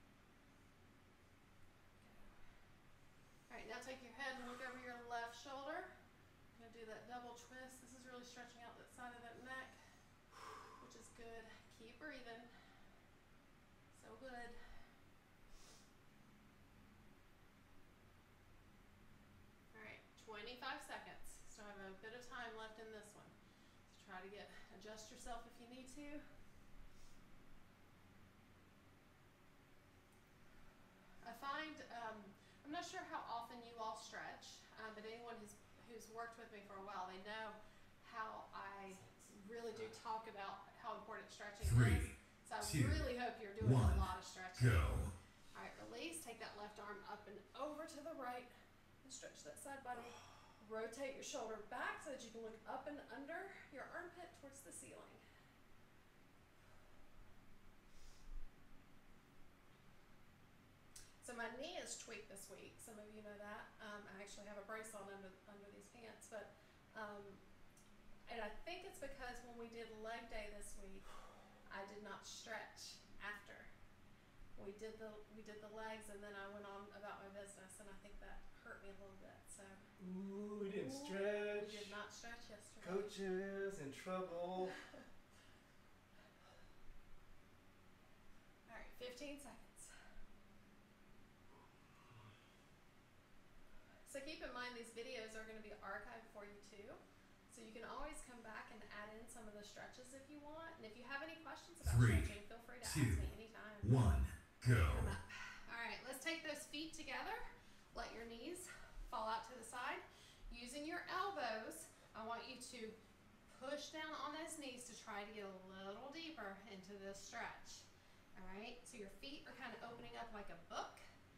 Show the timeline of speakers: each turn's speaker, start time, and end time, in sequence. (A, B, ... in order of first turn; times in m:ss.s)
0:02.0-0:02.3 A
0:03.5-0:05.9 A
0:06.5-0:09.7 A
0:10.8-0:12.5 A
0:13.9-0:14.6 A
0:19.7-0:23.3 A
0:23.9-0:26.2 A
0:31.2-0:45.0 A
0:41.6-0:42.1 B
0:42.6-0:43.0 B
0:43.6-0:44.0 B
0:44.6-0:45.1 B
0:45.5-0:48.5 A
0:49.0-0:55.2 A
1:01.2-1:07.4 A
1:08.3-1:11.0 A
1:11.7-1:13.7 A
1:14.6-1:19.9 A
1:20.0-1:21.9 C
1:20.7-1:23.2 A
1:22.8-1:24.8 C
1:28.7-1:29.9 A
1:34.1-1:44.0 A
1:41.8-1:43.2 B
1:43.8-1:45.2 B
1:44.6-1:53.0 A
1:53.5-1:57.8 A
1:58.4-2:01.0 A